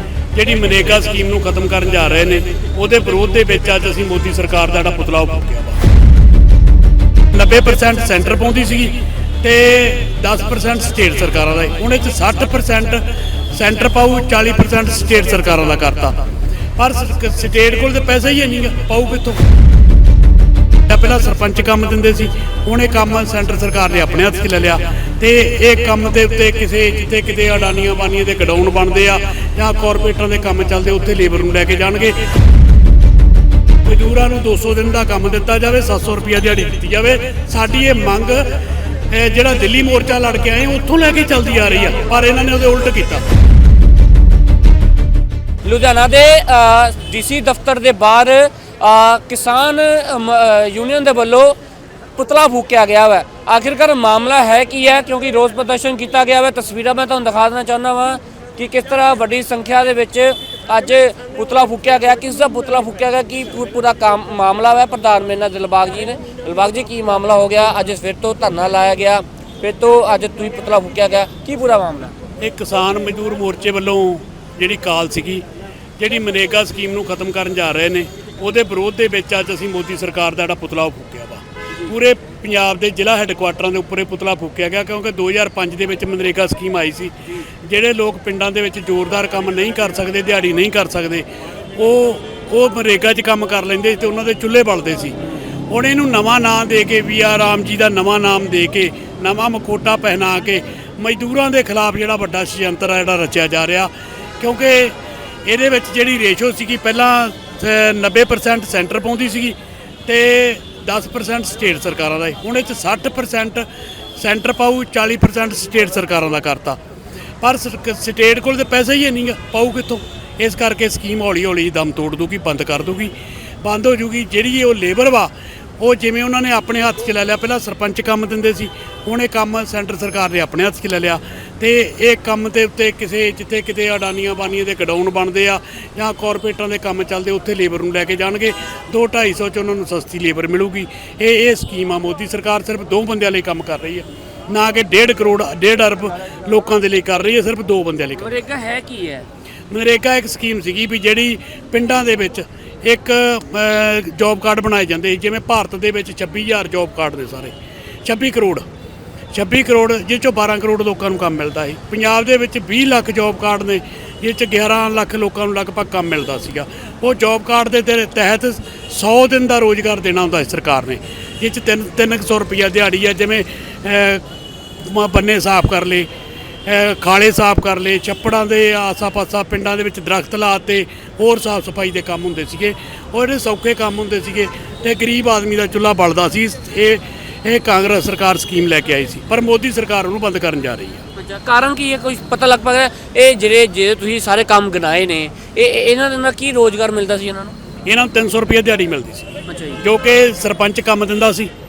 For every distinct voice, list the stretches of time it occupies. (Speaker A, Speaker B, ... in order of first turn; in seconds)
Speaker A: 0.3-5.8, 7.3-16.2, 16.8-19.4, 20.9-32.2, 33.8-38.5, 39.1-43.2, 72.4-75.4, 76.0-95.2, 95.7-113.7, 114.2-116.8, 117.4-148.4, 149.7-157.5, 158.0-158.6, 159.3-174.2, 174.8-176.1, 176.7-191.0, 197.8-201.5
Speaker B: 45.6-51.6, 52.2-72.1, 148.2-149.3, 191.2-197.5, 199.5-199.8